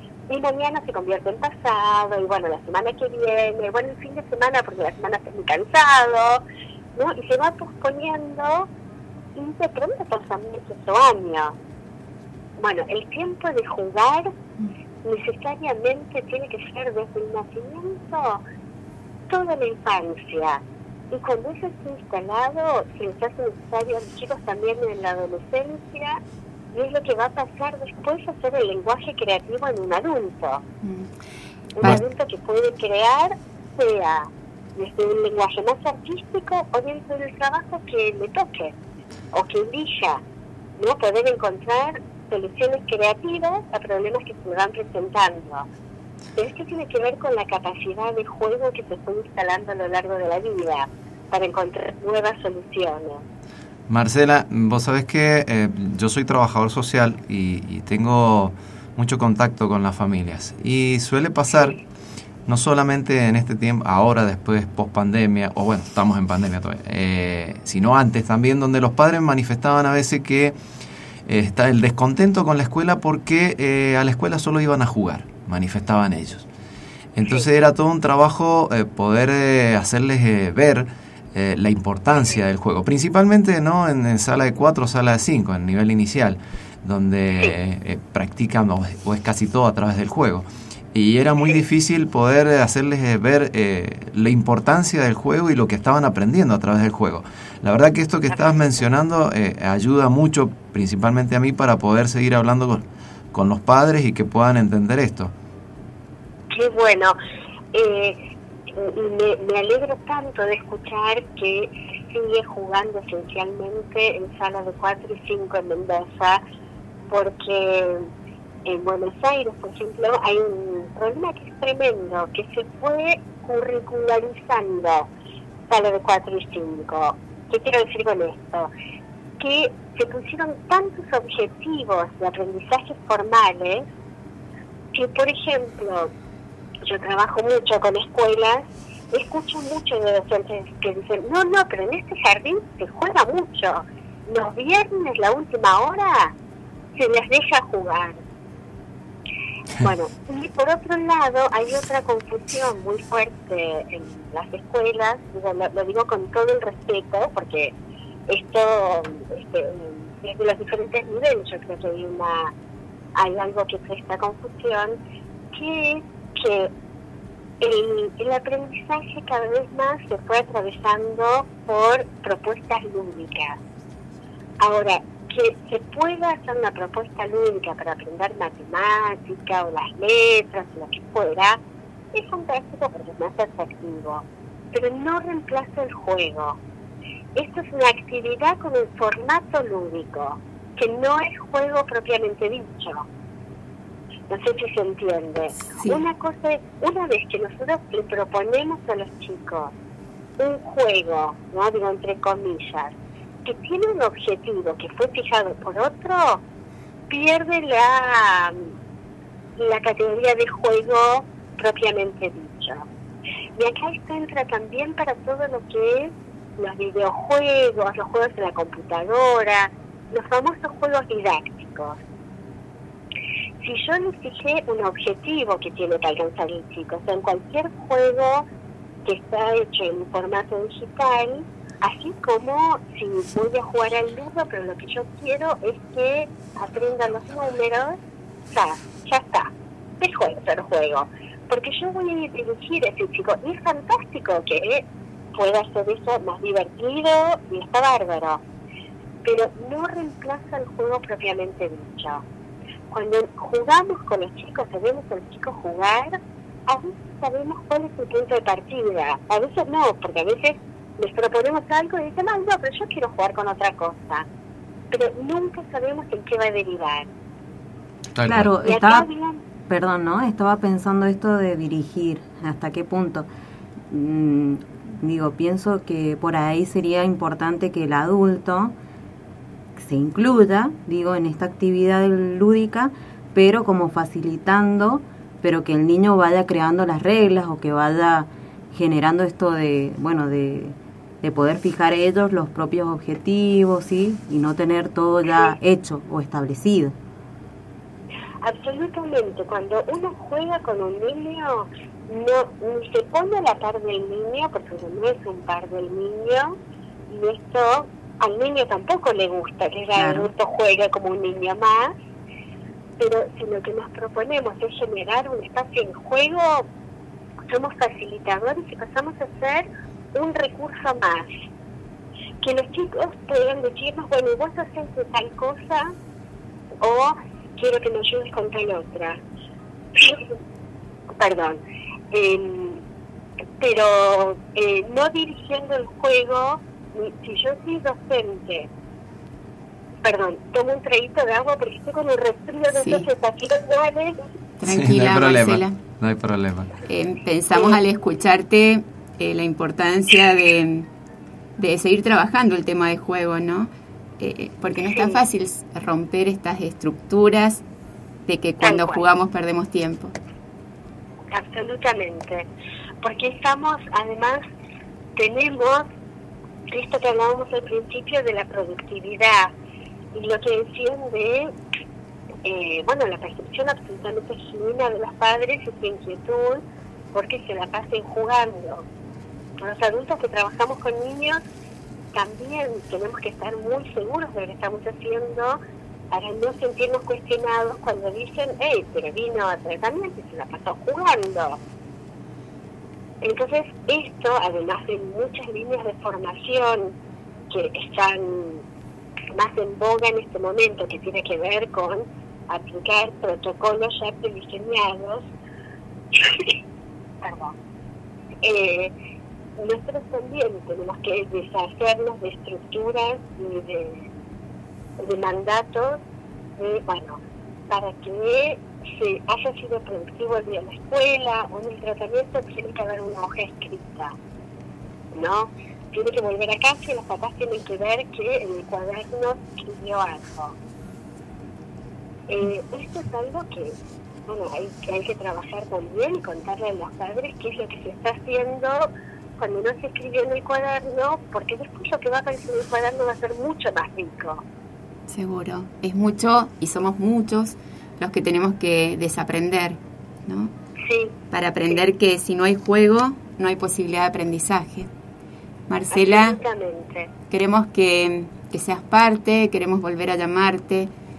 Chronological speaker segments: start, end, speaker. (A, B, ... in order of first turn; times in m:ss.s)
0:00.3-0:06.4 A
0:06.9-0:08.7 A
0:09.3-0:11.6 A
0:12.6-0:14.4 A
0:15.0-0:18.4 A
0:19.3-0:26.2 A
0:26.7-0:30.6 A
0:30.8-0:31.1 B
0:31.8-0:38.8 A
0:39.3-0:40.2 A
0:40.8-0:45.7 A
0:46.4-0:53.2 A
0:53.9-1:01.8 C
1:02.4-1:10.6 C
1:11.2-1:16.5 C
1:17.2-1:45.3 C
1:38.3-1:38.7 A
1:46.5-1:47.2 A
1:47.7-1:48.2 A
1:48.7-1:56.4 A
1:57.1-1:58.1 A
1:58.6-2:05.1 A
2:05.7-2:08.7 A
2:09.4-2:13.9 A
2:14.9-2:16.1 A
2:16.8-2:26.3 A
2:27.0-2:28.2 A
2:29.8-2:37.7 A
2:38.3-2:42.5 A
2:43.1-2:45.0 A
2:45.5-2:46.7 A
2:47.6-2:53.6 A
2:54.6-3:01.6 A
3:02.1-3:06.6 A
3:07.3-3:13.1 A
3:14.3-3:19.7 A
3:15.6-3:16.0 B
3:20.4-3:26.4 A
3:27.1-3:28.7 A
3:29.6-3:32.9 A
3:33.5-3:42.0 A
3:43.6-3:48.5 A
3:49.0-4:08.4 A
4:09.2-4:12.2 A
4:12.9-4:24.3 A
4:24.9-4:27.1 A
4:28.1-4:28.5 C
4:28.2-4:29.1 D
4:28.6-4:29.4 A
4:29.6-4:33.3 D
4:33.9-4:38.7 D
4:39.8-4:57.0 D
4:55.3-4:55.5 A
4:58.4-5:06.6 A
5:07.1-5:11.9 A
5:10.0-5:10.3 D
5:13.0-5:16.7 A
5:17.5-5:21.3 A
5:22.4-5:25.9 A
5:26.8-5:29.2 A
5:29.9-5:30.3 A
5:31.2-5:32.8 A
5:33.6-5:38.7 A
5:40.0-5:44.2 A
5:42.7-5:43.1 B
5:44.6-5:45.8 B
5:44.7-5:46.7 C
5:46.8-5:50.9 B
5:47.5-5:47.8 A
5:51.6-5:57.6 B
5:54.9-5:55.2 A
5:58.3-6:00.1 B
5:58.6-5:59.0 A
6:01.3-6:02.5 A
6:03.0-6:04.4 A
6:05.2-6:05.9 A
6:06.7-6:09.5 A
6:10.1-6:11.5 A
6:12.4-6:18.8 A
6:19.6-6:21.4 A
6:22.1-6:25.6 A
6:26.1-6:31.6 A
6:33.2-6:36.9 A
6:37.5-6:38.6 A
6:39.3-6:45.3 A
6:46.1-6:46.6 A
6:47.2-6:47.5 A
6:48.4-6:48.9 A
6:49.6-6:54.1 A
6:55.0-6:56.0 A
6:56.6-7:04.1 A
7:05.1-7:10.5 A
7:12.3-7:24.4 A
7:25.1-7:30.5 B
7:30.8-7:31.8 A
7:31.3-7:34.9 B
7:35.7-7:36.4 B
7:35.9-7:37.1 A
7:37.3-7:40.9 B